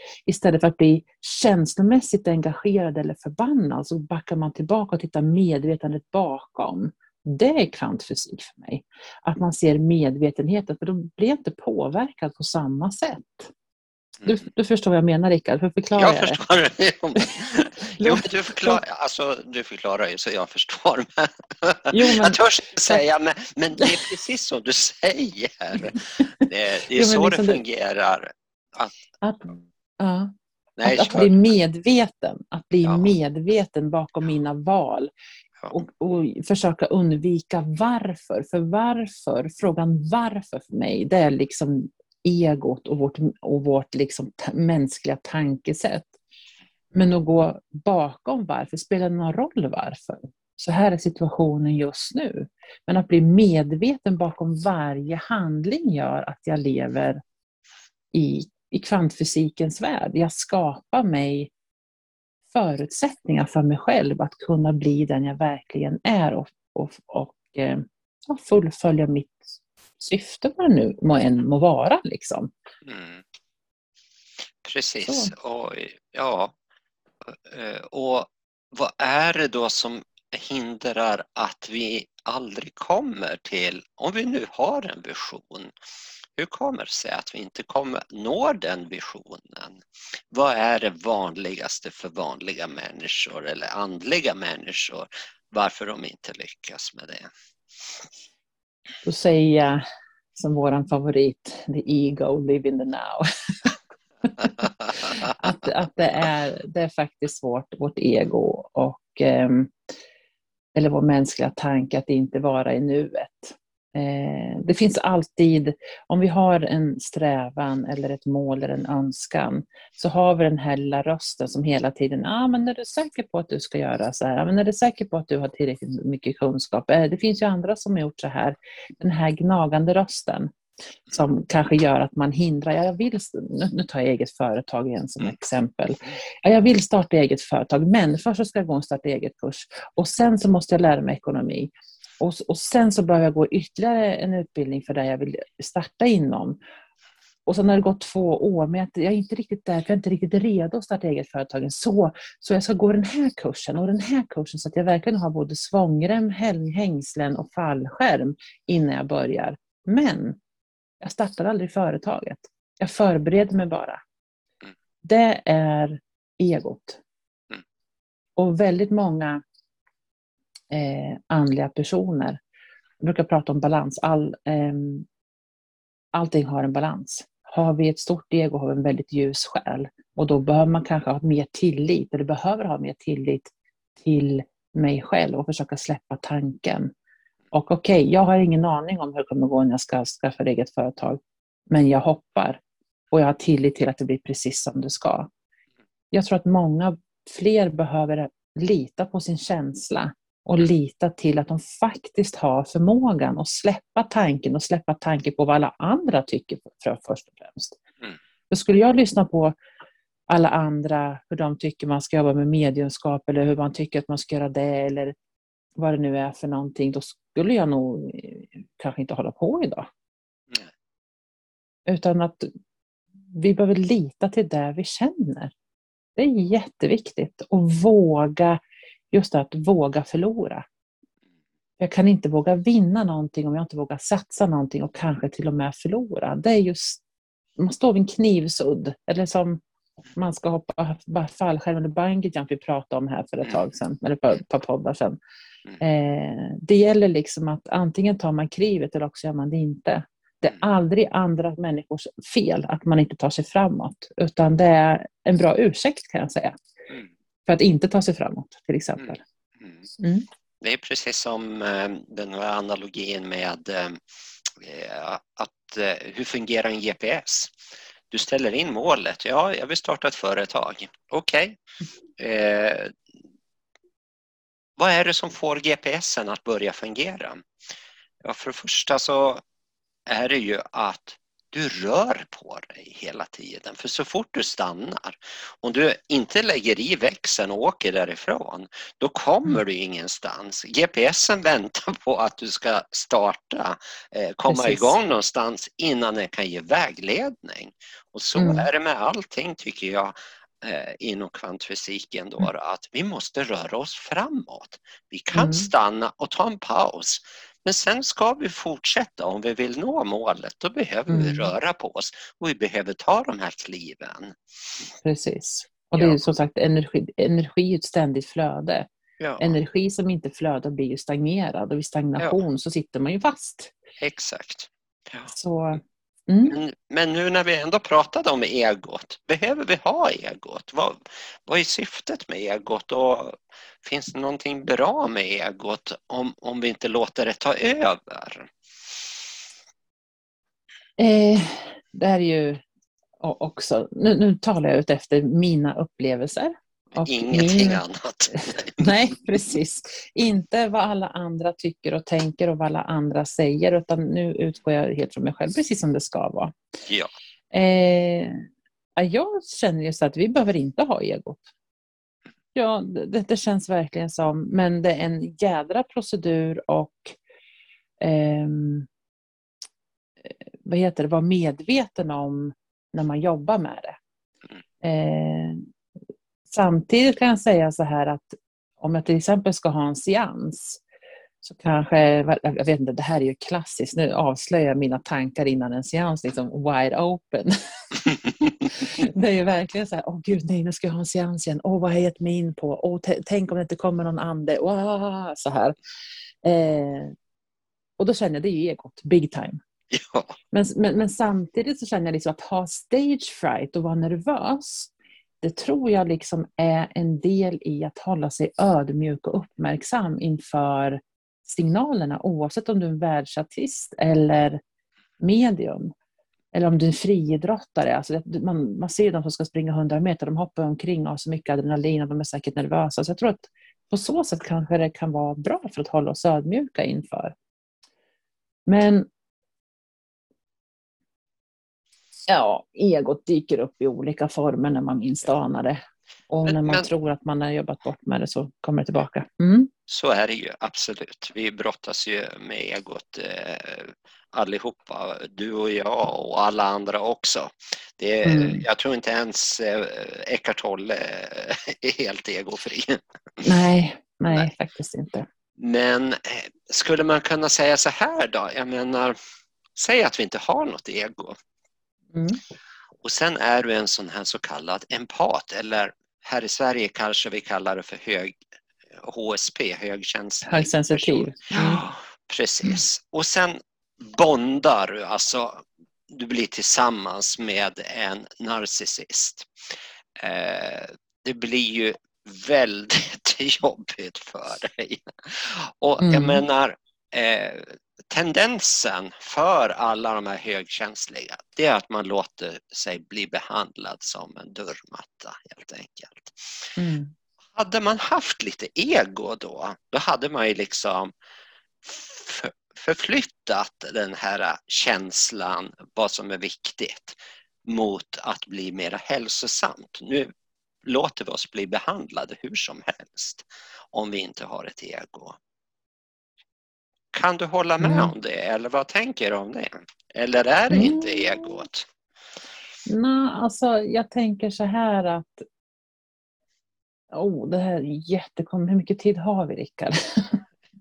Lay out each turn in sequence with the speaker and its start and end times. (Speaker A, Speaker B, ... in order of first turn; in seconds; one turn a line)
Speaker A: 0.2-13.5
Speaker A: 14.2-16.4
Speaker B: 15.9-28.9
Speaker A: 18.0-18.8
Speaker A: 21.9-23.0
Speaker A: 26.9-27.6
Speaker A: 29.2-30.3
Speaker B: 30.8-31.4
Speaker A: 30.8-35.1
Speaker B: 32.8-33.1
Speaker A: 35.7-46.1
Speaker A: 46.9-57.2
Speaker A: 58.1-61.5
Speaker A: 62.5-72.5
Speaker B: 72.8-73.2
Speaker B: 74.6-76.5
Speaker A: 75.0-75.3
Speaker B: 77.3-85.7
Speaker B: 86.4-97.3
Speaker A: 99.0-99.8
Speaker A: 100.3-109.7
Speaker A: 110.7-130.5
Speaker A: 131.1-146.6
Speaker A: 147.4-160.4
Speaker A: 161.0-164.0
Speaker A: 165.0-167.0
Speaker A: 168.3-169.4
Speaker A: 170.7-172.4
Speaker A: 173.0-175.1
Speaker A: 176.1-186.9
Speaker A: 187.5-192.6
Speaker A: 193.1-195.3
Speaker A: 196.1-207.8
Speaker A: 208.5-209.6
Speaker A: 210.3-215.1
Speaker A: 215.8-219.9
Speaker A: 221.9-222.5
Speaker A: 223.3-225.5
Speaker A: 226.2-230.6
Speaker A: 231.8-237.0
Speaker A: 237.6-239.6
Speaker A: 240.1-245.2
Speaker A: 245.8-256.5
Speaker A: 257.5-259.2
Speaker B: 259.0-259.8
Speaker A: 260.0-260.3
Speaker B: 260.6-264.0
Speaker B: 264.6-267.5
Speaker B: 268.1-271.6
Speaker B: 272.2-272.9
Speaker B: 274.8-277.4
Speaker B: 278.2-279.4
Speaker B: 280.1-314.4
Speaker A: 294.5-294.9
Speaker A: 298.4-298.7
Speaker A: 305.3-305.7
Speaker A: 311.1-311.5
Speaker A: 315.0-318.9
Speaker B: 319.2-319.5
Speaker A: 319.4-323.7
Speaker B: 324.0-325.3
Speaker A: 325.3-326.6
Speaker B: 326.5-338.5
Speaker A: 341.0-342.6
Speaker A: 343.2-356.5
Speaker B: 347.0-348.9
Speaker B: 356.9-357.1
Speaker A: 357.5-358.4
Speaker A: 358.9-361.5
Speaker A: 362.5-367.2
Speaker A: 368.0-368.9
Speaker A: 370.2-373.9
Speaker A: 374.8-375.6
Speaker A: 376.4-380.8
Speaker A: 381.4-395.8
Speaker A: 396.4-397.1
Speaker A: 398.0-399.6
Speaker B: 399.9-400.4
Speaker A: 400.5-414.6
Speaker A: 415.2-415.9
Speaker A: 416.5-427.3
Speaker A: 428.6-429.1
Speaker A: 432.3-439.7
Speaker B: 436.4-436.9
Speaker B: 439.9-453.5
Speaker A: 448.2-448.6
Speaker A: 453.4-455.2
Speaker B: 455.6-459.2
Speaker B: 459.8-461.4
Speaker A: 462.1-462.4
Speaker B: 463.0-468.4
Speaker B: 469.0-479.5
Speaker A: 470.4-471.8
Speaker B: 480.2-496.7
Speaker A: 486.0-486.4
Speaker A: 496.8-497.1
Speaker B: 497.5-501.1
Speaker B: 501.8-510.3
Speaker B: 510.8-515.4
Speaker B: 517.1-521.9
Speaker A: 517.8-518.1
Speaker A: 520.7-521.6
Speaker A: 522.9-525.5
Speaker A: 527.1-530.4